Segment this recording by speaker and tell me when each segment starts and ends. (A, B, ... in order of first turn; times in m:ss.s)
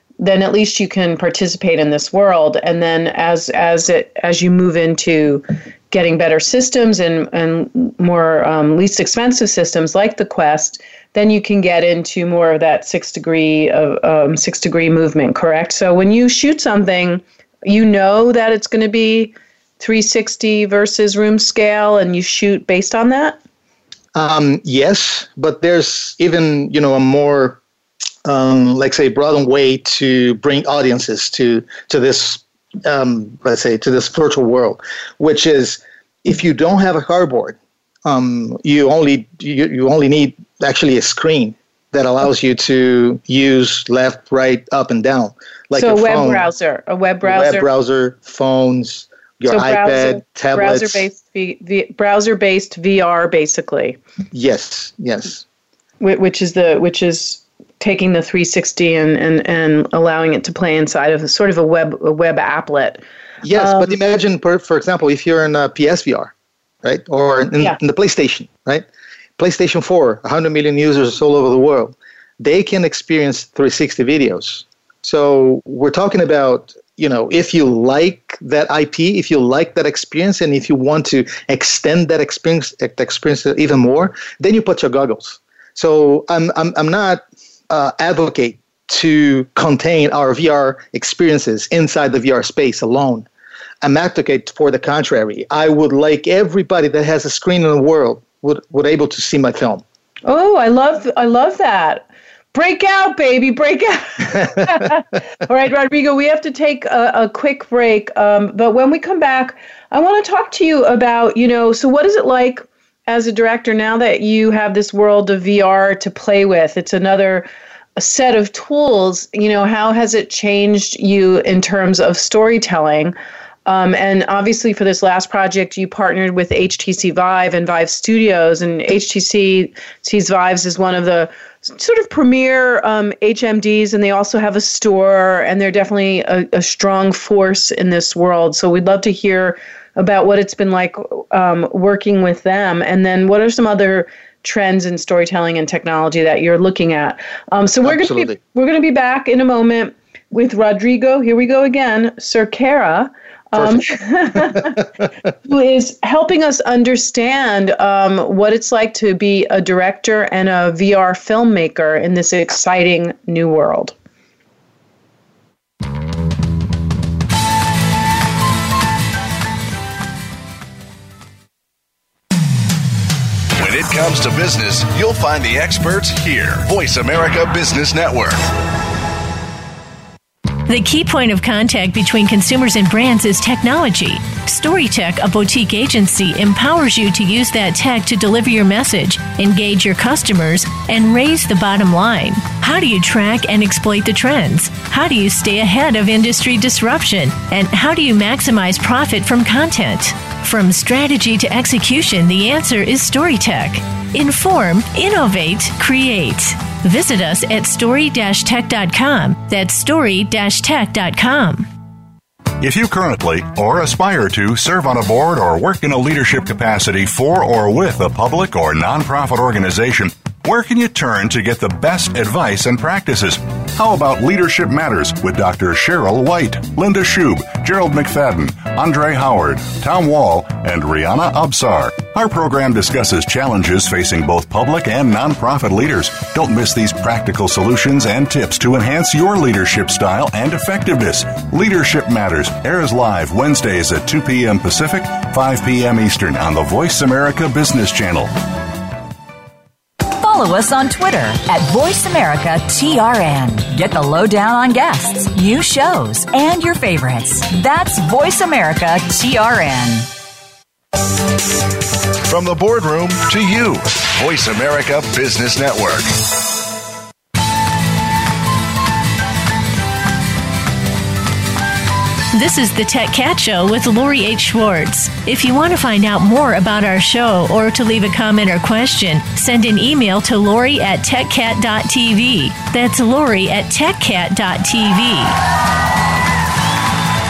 0:00.2-0:23.4 A
0:24.1-0:27.6 B
0:28.2-0:46.4 B
0:45.7-0:47.6 A
0:47.2-0:51.0 B
0:49.5-0:54.0 A
0:54.3-0:55.4 B
0:56.0-1:03.0 A
1:03.4-1:06.3 B
1:03.5-1:03.9 A
1:06.8-1:08.8 B
1:09.4-1:33.3 B
1:33.8-1:39.8 B
1:40.2-2:03.1 A
2:03.6-2:34.9 A
2:27.8-2:28.3 B
2:35.4-2:43.9 A
2:53.6-2:58.4 C
3:00.6-3:31.7 D
3:32.6-4:08.3 E
4:10.1-4:20.1 F
4:22.3-4:26.1 C
4:32.3-4:45.4 D